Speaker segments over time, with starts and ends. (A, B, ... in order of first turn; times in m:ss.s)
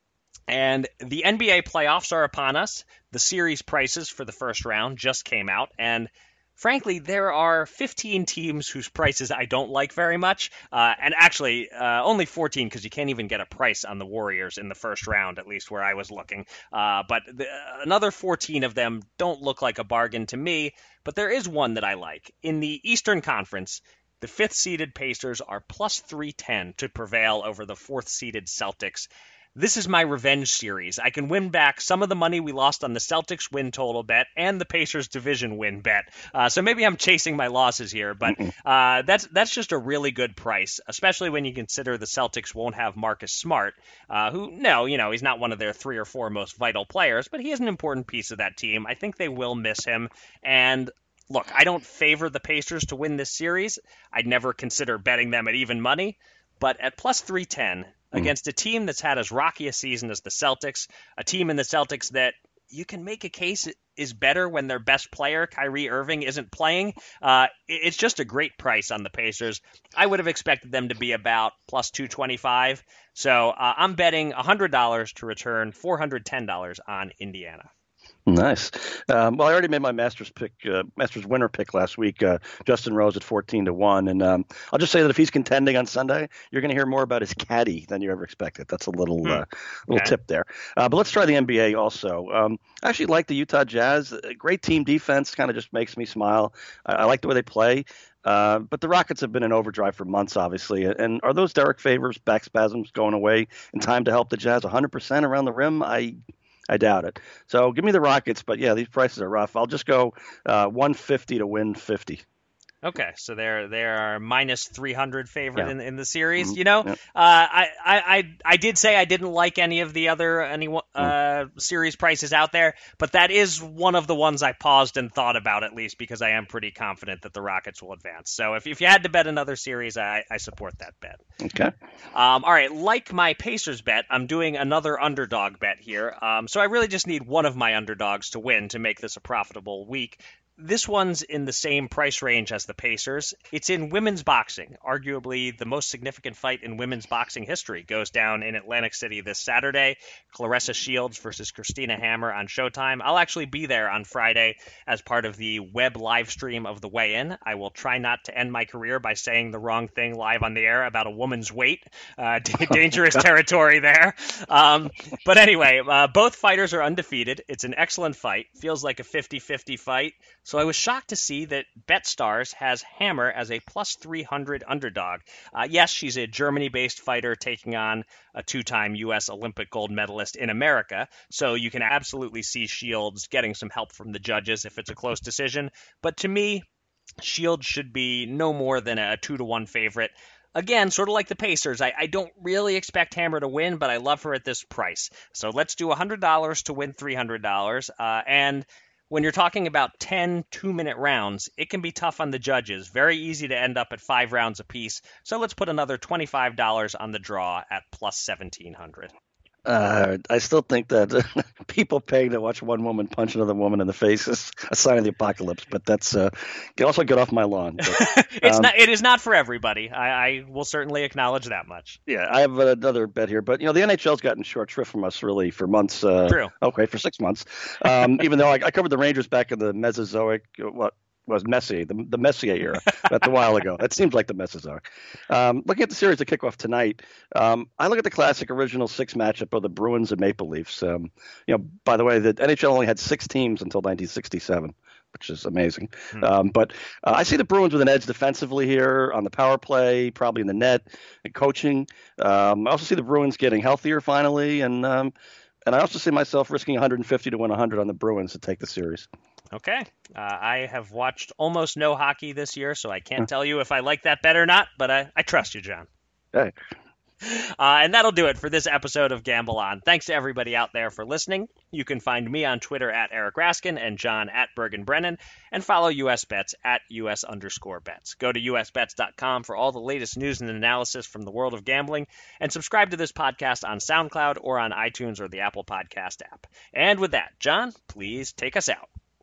0:00.5-1:17.7 A
1:18.3-1:46.2 B
1:29.2-1:30.1 A
1:46.7-1:52.2 B
1:52.8-2:11.2 A
1:56.4-1:56.9 B
2:11.4-2:11.7 B
2:12.1-3:06.7 A
3:07.2-3:29.1 A
3:29.7-3:38.7 B
3:37.9-3:42.0 A
3:42.1-4:15.1 B
3:46.2-3:46.5 A
4:15.7-4:19.1 B
4:19.5-4:25.9 A
4:27.2-4:48.9 A